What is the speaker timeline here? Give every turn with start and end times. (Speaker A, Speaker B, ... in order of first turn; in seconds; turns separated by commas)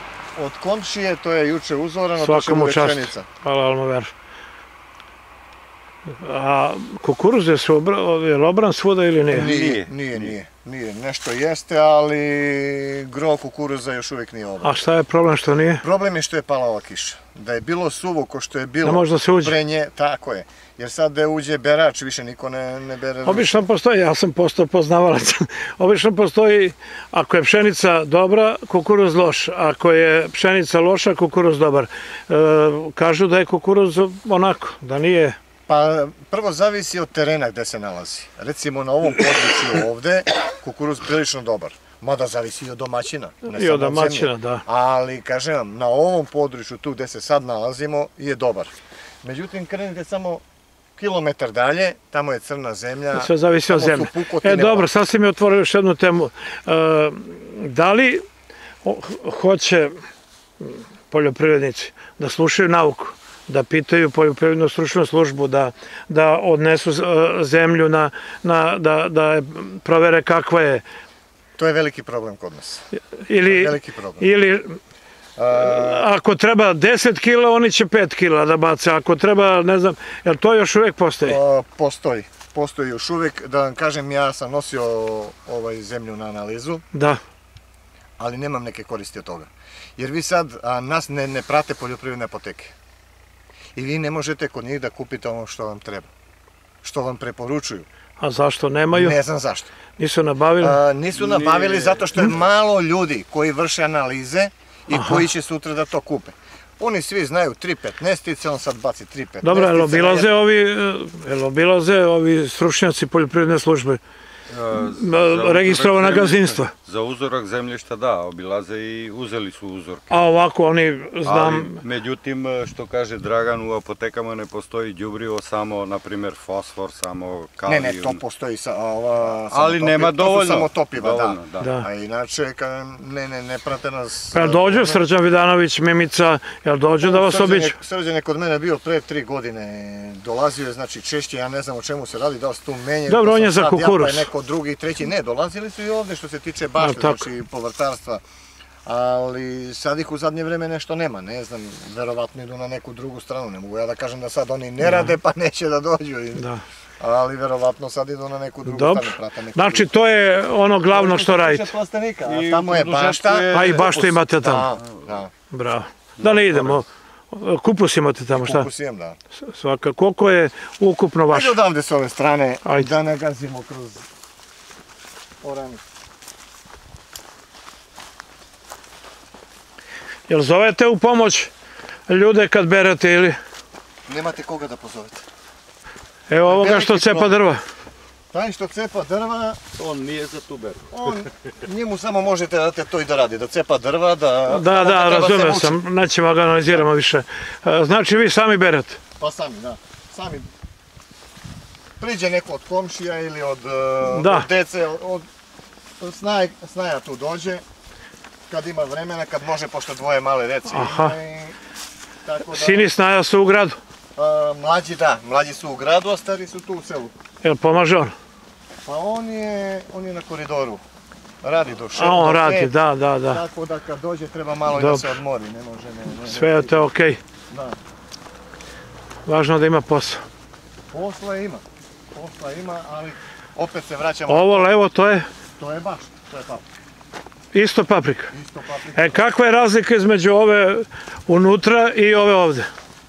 Speaker A: 0.3-3.3, Speaker B: 2.2-4.1, Speaker B: 6.1-9.5, Speaker A: 9.3-14.8, Speaker C: 9.4-10.3, Speaker B: 14.6-15.8, Speaker A: 15.8-23.6, Speaker B: 18.8-19.6, Speaker B: 23.2-35.4, Speaker A: 35.7-48.7, Speaker B: 43.5-44.6, Speaker A: 49.2-50.4, Speaker A: 51.0-54.9, Speaker B: 53.1-58.2, Speaker B: 58.8-60.0, Speaker B: 60.6-70.8, Speaker A: 71.6-72.9, Speaker B: 73.2-74.8, Speaker A: 73.4-74.2, Speaker A: 75.3-76.0, Speaker B: 75.5-81.4, Speaker A: 81.2-86.8, Speaker B: 86.9-87.2, Speaker A: 88.2-92.7, Speaker A: 93.7-96.1, Speaker A: 96.8-97.9, Speaker B: 98.2-99.2, Speaker A: 98.9-99.7, Speaker B: 100.0-100.8, Speaker A: 100.6-110.3, Speaker C: 101.1-102.3, Speaker B: 104.9-105.2, Speaker B: 109.4-114.0, Speaker C: 114.5-120.2, Speaker B: 114.8-116.7, Speaker B: 120.1-121.8, Speaker C: 121.2-128.2, Speaker A: 127.7-135.0, Speaker C: 129.3-131.7, Speaker B: 131.6-131.8, Speaker B: 134.3-137.8, Speaker A: 137.0-148.2, Speaker B: 143.1-144.3, Speaker B: 146.8-147.2, Speaker A: 148.8-156.5, Speaker B: 154.8-155.2, Speaker B: 156.4-156.6, Speaker A: 157.0-159.9, Speaker B: 158.7-161.7, Speaker A: 160.8-165.3, Speaker C: 162.2-164.2, Speaker B: 163.5-164.7, Speaker B: 165.5-168.7, Speaker C: 166.2-166.8, Speaker A: 168.3-169.2, Speaker B: 169.4-171.6, Speaker A: 171.3-174.1, Speaker B: 172.6-172.9, Speaker A: 175.4-175.8, Speaker B: 180.3-181.5, Speaker B: 182.1-183.4, Speaker A: 184.1-185.2, Speaker B: 186.3-187.6, Speaker A: 186.4-187.4, Speaker A: 188.3-189.6, Speaker C: 189.8-190.9, Speaker A: 190.9-195.8, Speaker B: 194.5-199.0, Speaker A: 199.2-200.5, Speaker A: 202.0-205.2, Speaker B: 204.1-204.5, Speaker A: 206.0-207.6, Speaker A: 208.5-211.6, Speaker B: 210.7-211.1, Speaker A: 212.2-212.9, Speaker B: 212.5-213.8, Speaker A: 214.2-217.1, Speaker B: 217.4-218.1, Speaker A: 218.8-220.8, Speaker A: 221.4-226.9, Speaker B: 221.9-223.4, Speaker B: 224.7-225.2, Speaker B: 226.2-227.2, Speaker A: 227.5-227.8, Speaker B: 229.2-230.2, Speaker A: 230.9-234.7, Speaker B: 234.3-235.3, Speaker A: 235.6-236.6, Speaker B: 237.5-238.3, Speaker A: 238.3-239.3, Speaker B: 238.9-242.7